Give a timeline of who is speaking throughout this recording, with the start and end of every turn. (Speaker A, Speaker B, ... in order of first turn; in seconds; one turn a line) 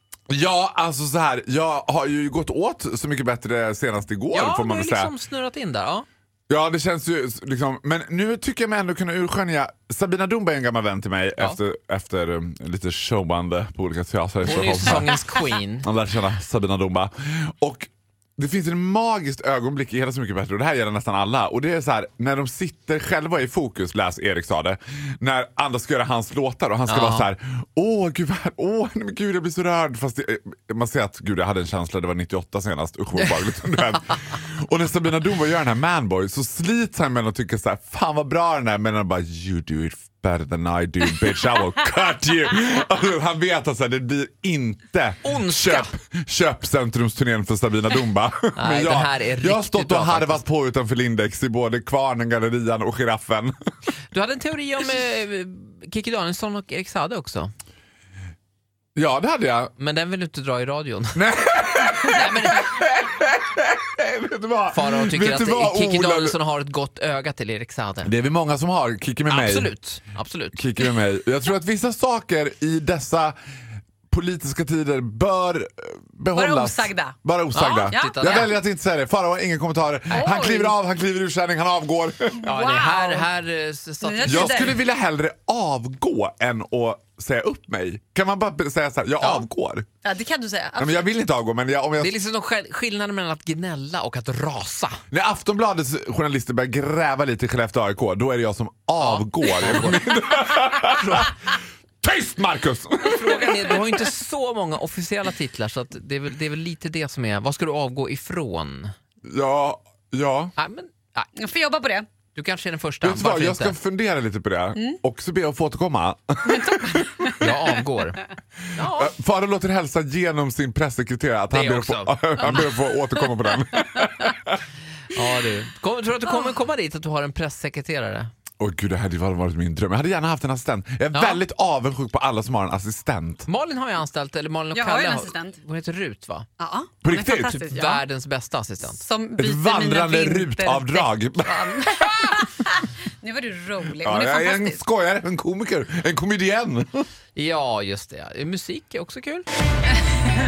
Speaker A: 0.3-5.1
Speaker B: 4.3-6.1
Speaker A: 6.5-53.5
Speaker B: 14.4-15.9
Speaker B: 26.9-27.3
Speaker B: 45.2-45.9
Speaker B: 48.6-50.4
Speaker B: 54.1-57.5
Speaker A: 59.0-59.7
Speaker B: 59.8-61.2
Speaker A: 61.1-66.4
Speaker B: 61.8-62.8
Speaker B: 64.7-68.1
Speaker A: 68.0-69.7
Speaker B: 69.3-70.6
Speaker A: 70.5-73.3
Speaker A: 74.1-82.4
Speaker C: 76.3-77.2
Speaker B: 77.5-78.5
Speaker C: 77.8-78.5
Speaker C: 80.1-80.8
Speaker C: 82.4-83.3
Speaker B: 82.4-84.8
Speaker C: 84.0-84.8
Speaker A: 84.3-89.9
Speaker C: 90.0-91.0
Speaker A: 90.8-92.1
Speaker B: 92.0-95.0
Speaker A: 95.1-101.3
Speaker B: 99.0-99.9
Speaker B: 100.9-101.3
Speaker A: 102.0-103.8
Speaker B: 103.0-108.9
Speaker A: 109.3-110.5
Speaker B: 110.6-111.3
Speaker C: 111.4-112.1
Speaker B: 112.3-113.8
Speaker A: 113.0-117.3
Speaker C: 114.8-115.0
Speaker C: 116.5-117.7
Speaker B: 117.4-118.2
Speaker B: 118.8-119.1
Speaker A: 118.8-124.6
Speaker B: 121.5-122.7
Speaker B: 125.1-128.3
Speaker A: 128.6-133.5
Speaker B: 131.1-131.4
Speaker B: 133.5-136.5
Speaker C: 134.7-135.6
Speaker C: 136.6-138.0
Speaker A: 137.0-137.7
Speaker B: 137.6-139.0
Speaker C: 138.9-144.8
Speaker A: 139.4-142.5
Speaker A: 144.0-147.1
Speaker B: 147.3-149.5
Speaker C: 150.1-150.4